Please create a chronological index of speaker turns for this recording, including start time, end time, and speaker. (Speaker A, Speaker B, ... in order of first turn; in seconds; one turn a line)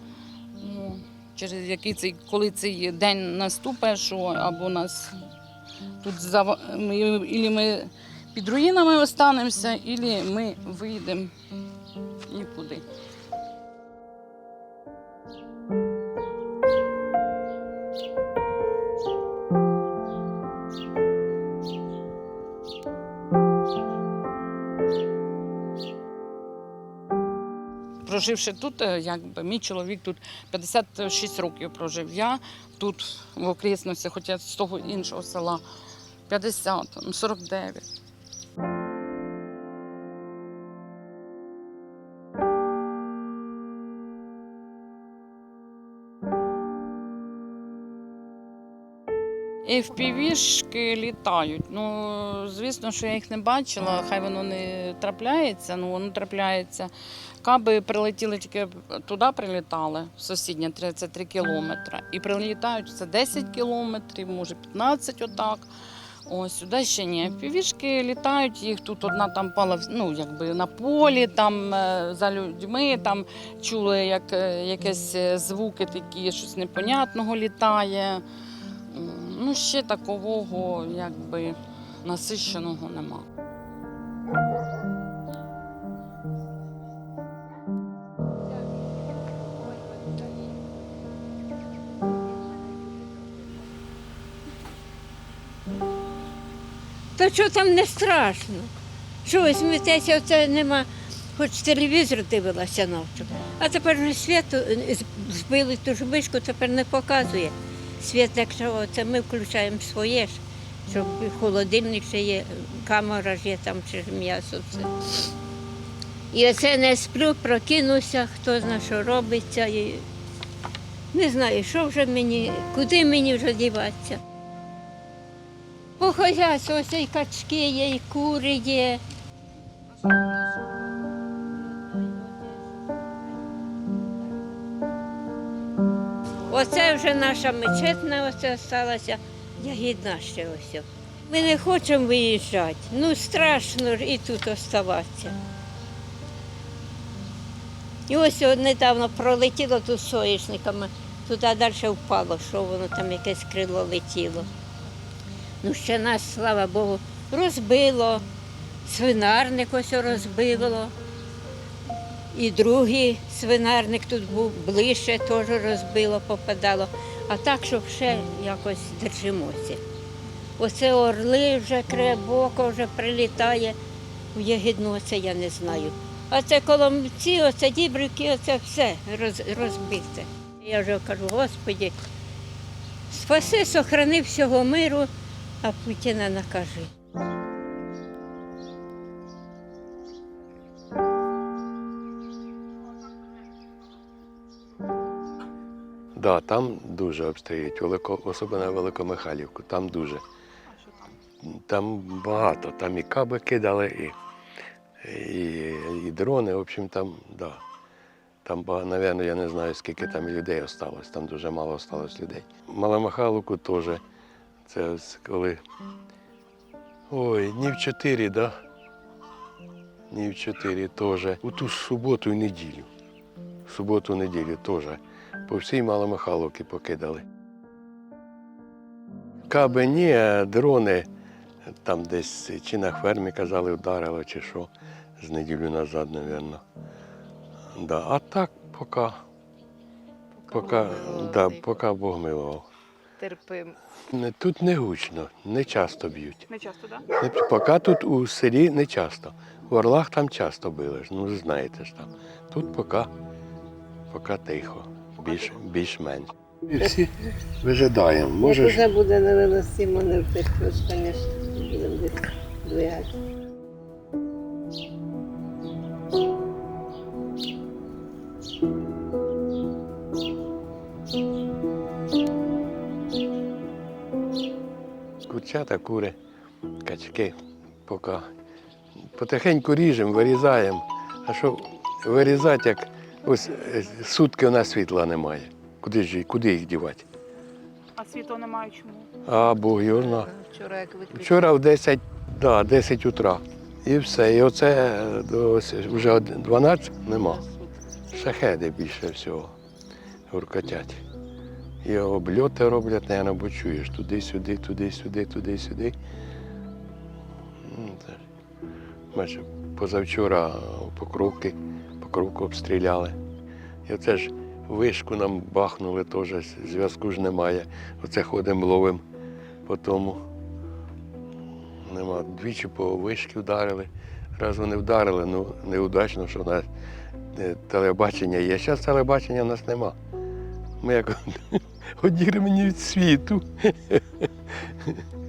Speaker A: 0.6-5.1
Speaker A: 6.0-11.3
Speaker A: 12.3-12.8
Speaker A: 28.0-35.6
Speaker A: 36.3-37.8
Speaker A: 49.6-56.9
Speaker A: 57.4-65.7
Speaker A: 66.2-78.2
Speaker A: 78.9-83.2
Speaker B: 97.2-98.7
Speaker B: 99.2-115.3
Speaker B: 116.3-120.0
Speaker B: 121.1-124.2
Speaker B: 126.0-129.0
Speaker B: 136.5-145.3
Speaker B: 148.1-154.5
Speaker B: 155.6-158.2
Speaker B: 158.8-160.9
Speaker B: 162.3-169.8
Speaker B: 170.6-173.8
Speaker B: 174.3-181.9
Speaker B: 183.1-185.1
Speaker B: 185.6-186.9
Speaker C: 196.1-200.2
Speaker D: 200.7-201.1
Speaker C: 201.4-204.1
Speaker C: 205.0-207.6
Speaker C: 208.4-214.0
Speaker C: 214.7-215.6
Speaker C: 217.1-218.5
Speaker C: 220.1-222.9
Speaker C: 223.7-227.2
Speaker C: 229.5-231.1
Speaker C: 231.8-236.6
Speaker C: 237.8-239.2
Speaker E: 240.3-241.7
Speaker C: 240.5-242.7
Speaker E: 243.2-243.8
Speaker C: 244.1-246.5
Speaker D: 246.5-247.0
Speaker C: 247.1-253.1
Speaker C: 254.1-257.1
Speaker C: 257.6-258.9
Speaker E: 258.4-263.2
Speaker C: 275.3-276.1
Speaker C: 276.8-277.3
Speaker C: 277.9-278.2
Speaker C: 279.1-287.1
Speaker D: 288.0-289.1
Speaker C: 289.2-290.3
Speaker E: 289.9-291.6
Speaker C: 291.1-297.4
Speaker E: 297.1-297.7
Speaker C: 298.1-299.5
Speaker C: 300.3-301.0
Speaker C: 301.8-305.9
Speaker C: 307.6-308.2
Speaker C: 309.1-313.1
Speaker C: 313.9-319.0
Speaker C: 319.6-320.2
Speaker C: 321.8-326.7
Speaker C: 327.3-329.9
Speaker C: 330.8-331.5
Speaker C: 332.0-334.0